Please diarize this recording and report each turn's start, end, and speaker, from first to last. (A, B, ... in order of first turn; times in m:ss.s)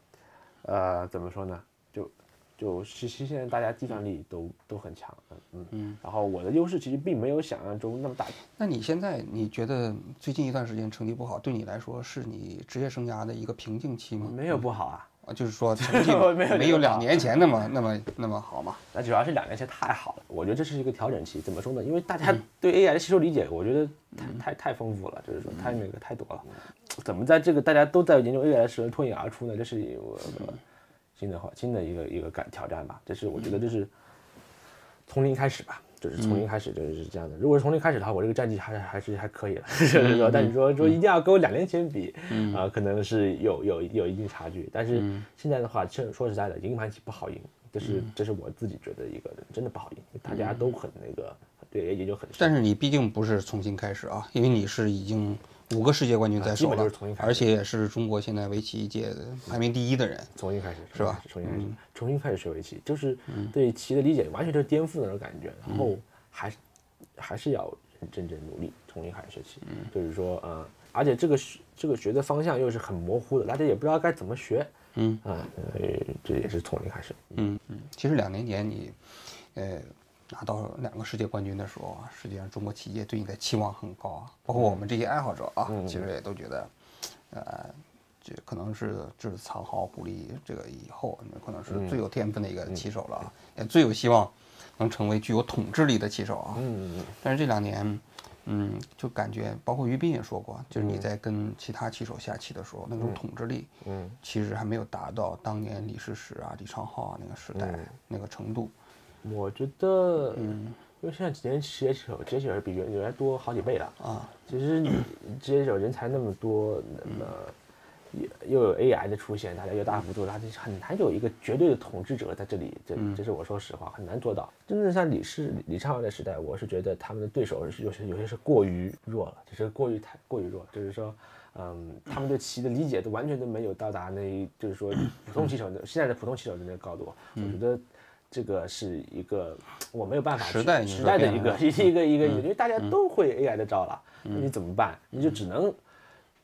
0:00.6-0:08.4 A
0:08.6-0:14.4 B
0:14.2-0:15.1 A
0:15.2-0:18.8 B
0:15.8-0:17.3 A
0:18.9-0:30.6 A
0:31.2-0:33.9 A
0:35.1-0:52.6 A
0:42.3-0:42.6 B
0:45.0-0:45.2 B
0:52.4-1:00.3 B
0:56.4-0:57.5 A
1:00.4-1:06.6 A
1:00.9-1:01.8 B
1:07.2-1:14.7 A
1:15.0-1:15.2 B
1:15.2-1:17.4 A
1:17.4-1:26.7 B
1:25.7-1:26.0 A
1:27.3-1:36.7 B
1:31.7-1:32.0 A
1:36.6-1:37.2 A
1:37.2-1:48.7 B
1:43.8-1:44.2 A
1:47.6-1:47.9 A
1:49.2-1:57.5 A
1:50.4-1:50.7 B
1:54.0-1:54.3 B
1:58.1-2:25.8 A
2:20.4-2:21.8 B